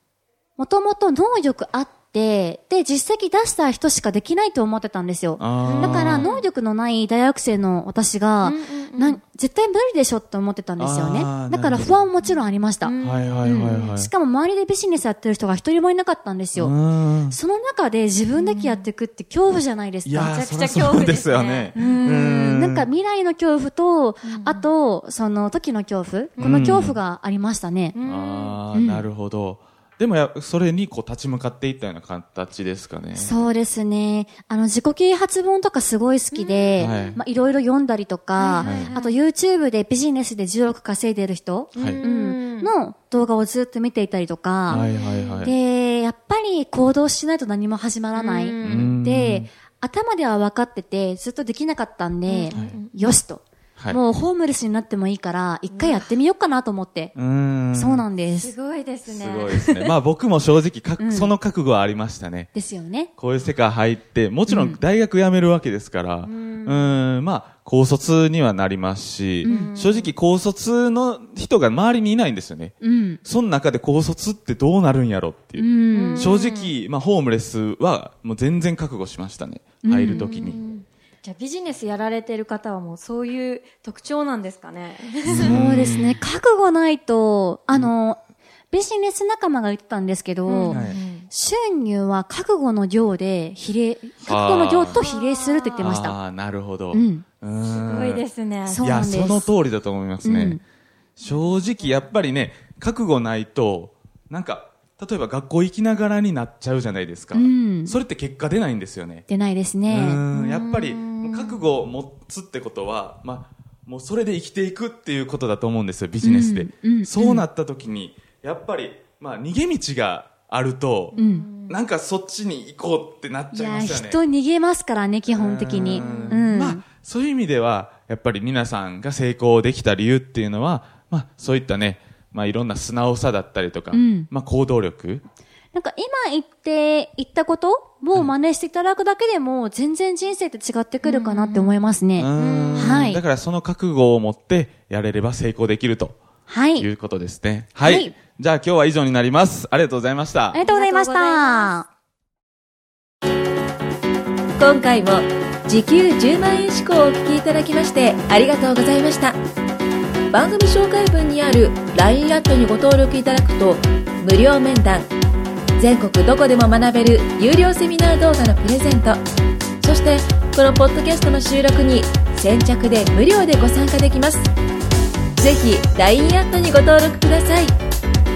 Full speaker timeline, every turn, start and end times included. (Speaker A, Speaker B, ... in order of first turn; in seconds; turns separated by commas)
Speaker A: 0.6-16.7, Speaker B: 5.4-6.3, Speaker C: 5.6-6.5, Speaker C: 8.4-9.2, Speaker B: 10.8-12.1, Speaker C: 12.2-13.9, Speaker B: 13.0-14.1, Speaker B: 16.6-17.4, Speaker A: 17.3-20.4, Speaker C: 18.4-18.9, Speaker B: 20.0-22.9, Speaker C: 20.2-22.4, Speaker A: 21.8-28.0, Speaker C: 24.2-24.7, Speaker C: 26.4-26.8, Speaker B: 26.4-27.0, Speaker C: 27.9-28.6, Speaker B: 28.0-33.3, Speaker A: 28.7-29.1, Speaker A: 33.1-44.9, Speaker C: 36.3-37.1, Speaker B: 36.8-37.2, Speaker C: 38.4-39.1, Speaker B: 38.6-38.9, Speaker C: 41.7-42.7, Speaker B: 41.8-42.0, Speaker B: 44.7-45.5, Speaker C: 44.7-45.5, Speaker A: 45.4-57.1, Speaker C: 48.1-49.0, Speaker B: 48.6-49.5, Speaker C: 52.2-53.1, Speaker B: 52.5-52.8, Speaker C: 55.7-56.1, Speaker B: 57.1-58.0, Speaker A: 57.7-58.5, Speaker C: 58.4-59.9, Speaker B: 59.0-62.5, Speaker A: 61.0-61.3, Speaker A: 62.5-63.1, Speaker B: 63.2-80.6, Speaker A: 64.5-64.8, Speaker C: 66.2-66.9, Speaker A: 69.4-69.7, Speaker C: 69.4-70.1, Speaker A: 72.8-73.2, Speaker A: 75.5-76.3, Speaker C: 75.9-76.7, Speaker A: 79.8-80.5, Speaker C: 80.1-85.6, Speaker B: 85.3-86.2, Speaker A: 85.3-88.2, Speaker A: 88.7-96.2, Speaker C: 90.5-91.3, Speaker B: 90.7-91.0, Speaker B: 94.2-95.0, Speaker C: 94.9-95.9, Speaker B: 95.8-98.2, Speaker A: 96.9-97.2, Speaker C: 97.7-99.3, Speaker A: 98.7-99.5, Speaker B: 98.8-100.6, Speaker A: 100.2-100.6, Speaker B: 101.2-109.2, Speaker A: 107.3-108.0, Speaker A: 109.3-110.2, Speaker B: 109.8-124.2, Speaker C: 110.3-111.6, Speaker A: 116.2-117.5, Speaker C: 121.1-121.8, Speaker A: 121.2-121.5, Speaker A: 123.5-126.8, Speaker B: 125.3-135.2, Speaker C: 125.8-126.5, Speaker A: 133.9-134.3, Speaker A: 135.7-143.2, Speaker C: 141.0-141.8, Speaker B: 142.2-146.2, Speaker C: 142.3-143.1, Speaker A: 146.5-146.9, Speaker B: 146.8-150.6, Speaker A: 147.8-148.1, Speaker A: 150.5-151.9, Speaker C: 150.6-151.8, Speaker D: 154.6-159.4, Speaker D: 160.3-165.1, Speaker D: 165.8-169.2, Speaker D: 169.8-174.5, Speaker D: 175.4-177.8